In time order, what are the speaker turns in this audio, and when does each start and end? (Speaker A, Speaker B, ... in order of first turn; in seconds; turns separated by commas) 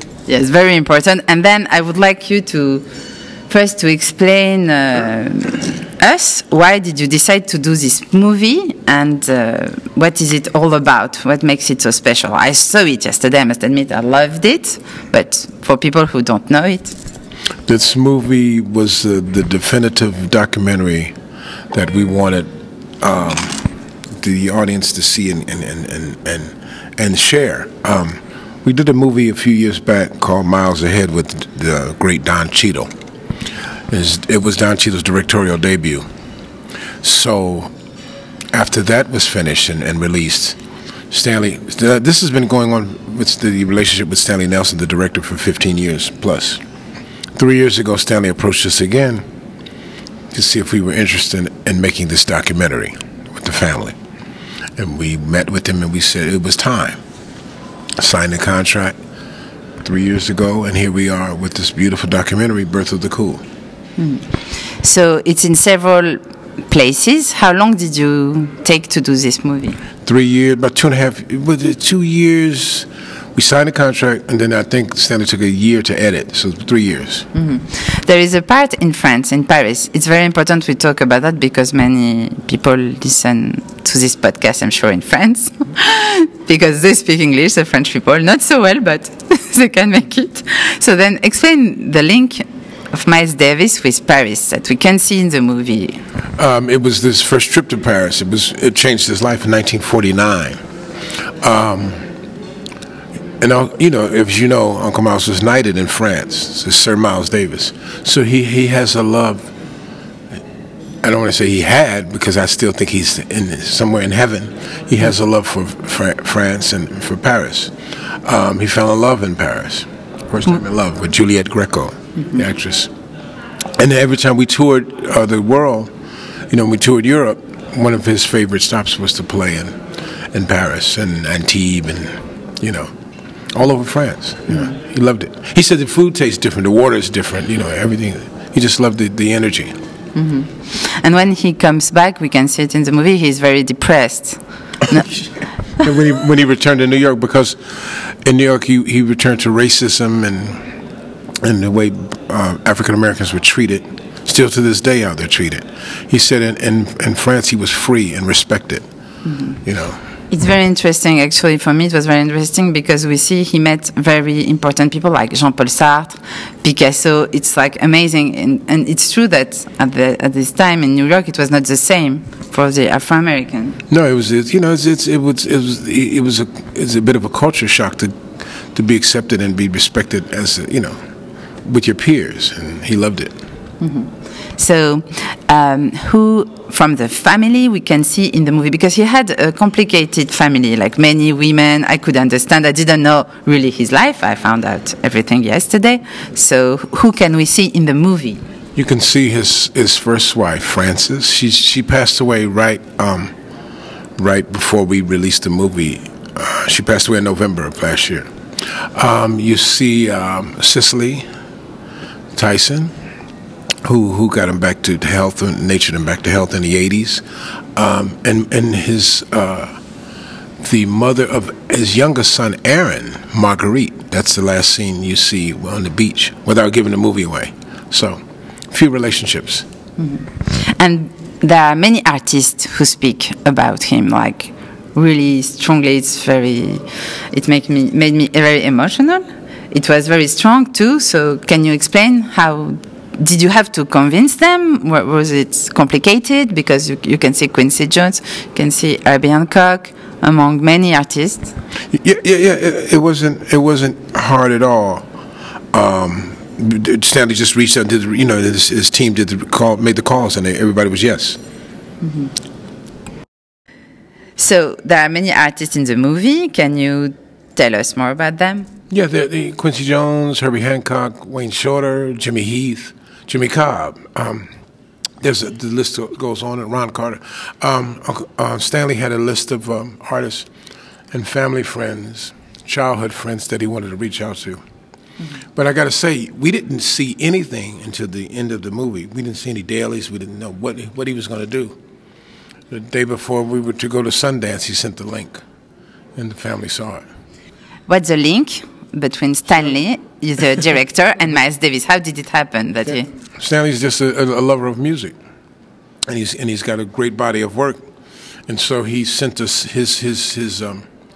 Speaker A: 0.3-16.9, Speaker B: 17.6-21.1, Speaker B: 21.7-32.9, Speaker B: 33.9-36.0, Speaker B: 37.0-37.7, Speaker B: 38.5-40.6, Speaker B: 41.1-46.6, Speaker B: 47.3-49.3, Speaker B: 50.3-54.0, Speaker B: 54.8-57.0, Speaker B: 58.0-59.0, Speaker B: 59.8-63.4, Speaker A: 64.0-69.8, Speaker B: 70.0-77.3, Speaker A: 77.3-96.0, Speaker B: 96.3-100.6, Speaker B: 101.2-102.1, Speaker B: 103.4-109.5, Speaker B: 111.0-122.9, Speaker B: 123.8-132.9, Speaker B: 133.5-139.8, Speaker A: 140.1-145.8, Speaker B: 145.8-150.8, Speaker B: 151.4-158.9, Speaker A: 159.2-159.6, Speaker B: 159.6-160.0, Speaker A: 160.3-173.8, Speaker B: 173.9-181.0, Speaker B: 181.6-183.4, Speaker A: 183.8-198.4, Speaker B: 198.7-203.3, Speaker B: 204.2-211.3, Speaker B: 212.3-212.9, Speaker B: 213.8-219.8, Speaker B: 220.6-229.7, Speaker A: 230.0-251.5, Speaker B: 251.9-255.1, Speaker B: 255.7-261.4, Speaker A: 262.0-262.4, Speaker A: 264.4-268.7, Speaker B: 268.9-274.5, Speaker B: 275.2-280.5, Speaker B: 281.1-284.6, Speaker A: 285.2-285.4, Speaker B: 285.5-291.8, Speaker B: 292.7-295.4, Speaker B: 296.1-297.1, Speaker A: 297.9-303.1, Speaker B: 303.3-305.1, Speaker B: 306.1-307.9, Speaker B: 308.4-310.9